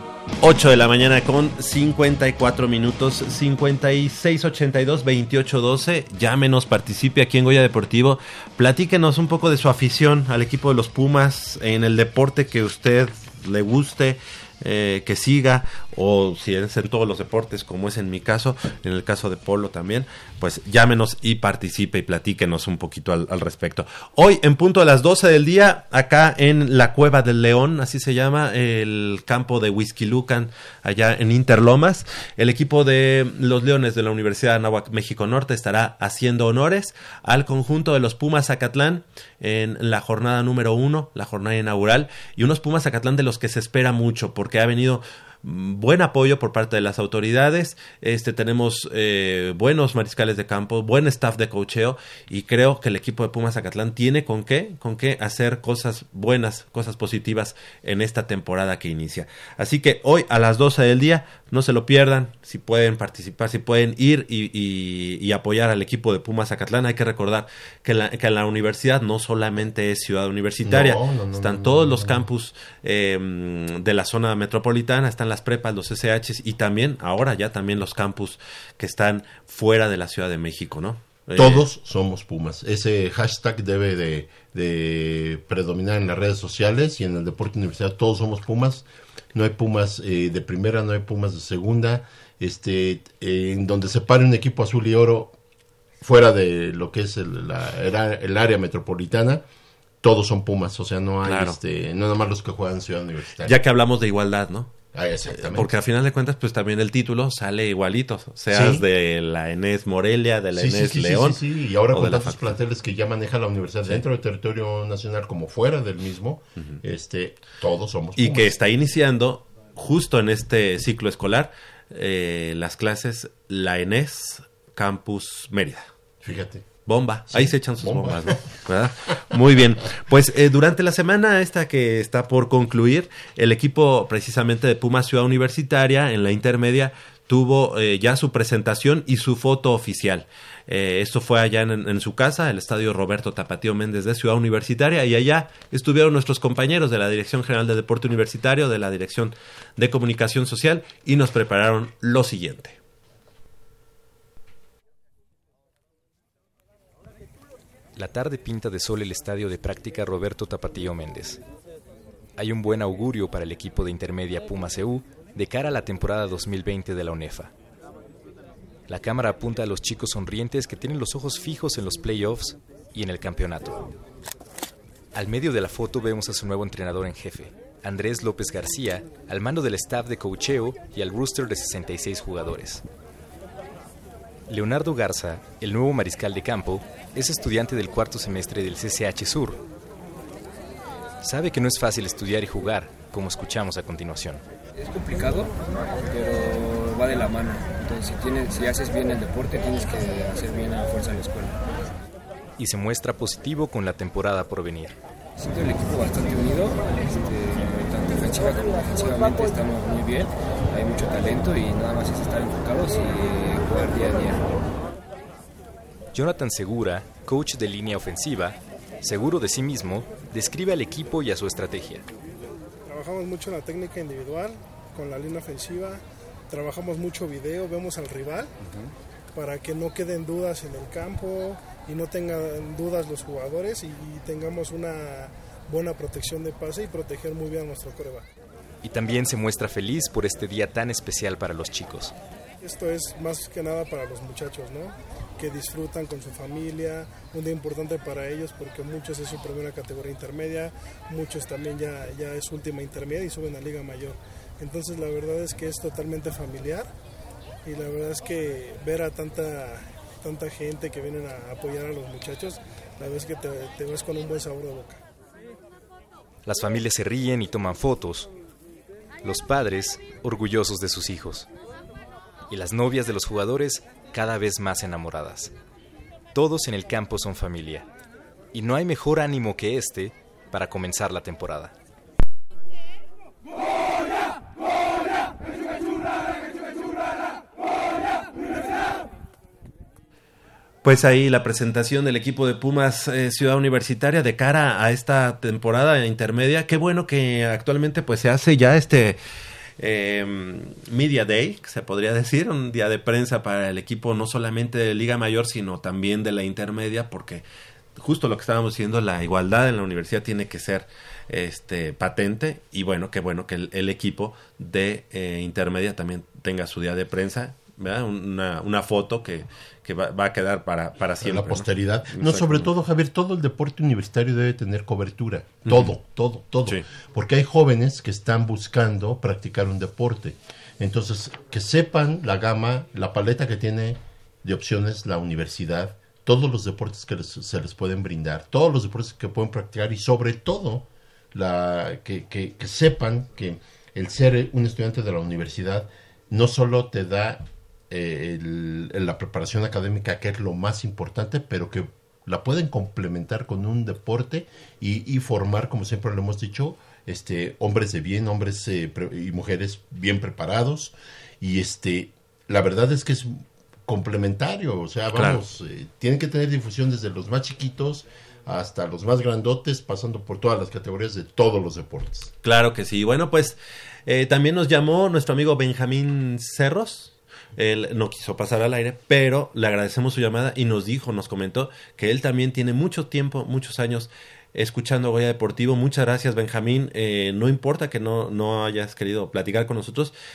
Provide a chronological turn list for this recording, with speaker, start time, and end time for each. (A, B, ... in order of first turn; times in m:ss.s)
0:00.4-1:21.7 A
1:10.6-1:12.3 B
1:21.4-1:35.4 B
1:36.0-1:39.4 B
1:40.0-1:43.6 B
1:41.2-1:41.6 A
1:43.4-1:44.7 A
1:44.9-1:45.7 B
1:45.4-1:51.4 A
1:48.5-1:48.8 B
1:50.5-1:58.4 B
1:51.9-1:52.6 A
1:58.2-2:05.9 A
2:06.2-2:06.8 B
2:06.9-2:32.8 A
2:07.3-2:08.4 B
2:38.0-2:41.4 C
2:42.4-2:47.5 C
2:48.9-2:53.9 C
2:55.1-3:02.8 C
3:04.5-3:09.6 C
3:11.2-3:14.4 C
3:14.8-3:21.8 D
3:22.6-3:25.0 C
3:25.4-3:34.6 D
3:36.1-3:42.0 C
3:42.9-3:48.5 E
3:48.6-3:48.9 C
3:49.4-3:58.3 E
3:58.8-4:02.1 C
4:02.6-4:16.9 E
4:17.6-4:25.0 E
4:26.5-4:28.3 C
4:29.2-4:31.5 C
4:32.5-4:35.5 C
4:36.3-4:37.9 C
4:38.5-4:41.7 C
4:50.8-4:59.2 A
4:59.8-5:07.4 A
5:08.0-5:22.7 A
5:21.2-6:12.3 B
5:25.7-5:25.9 A
6:05.1-6:05.4 A
6:12.4-6:30.1 A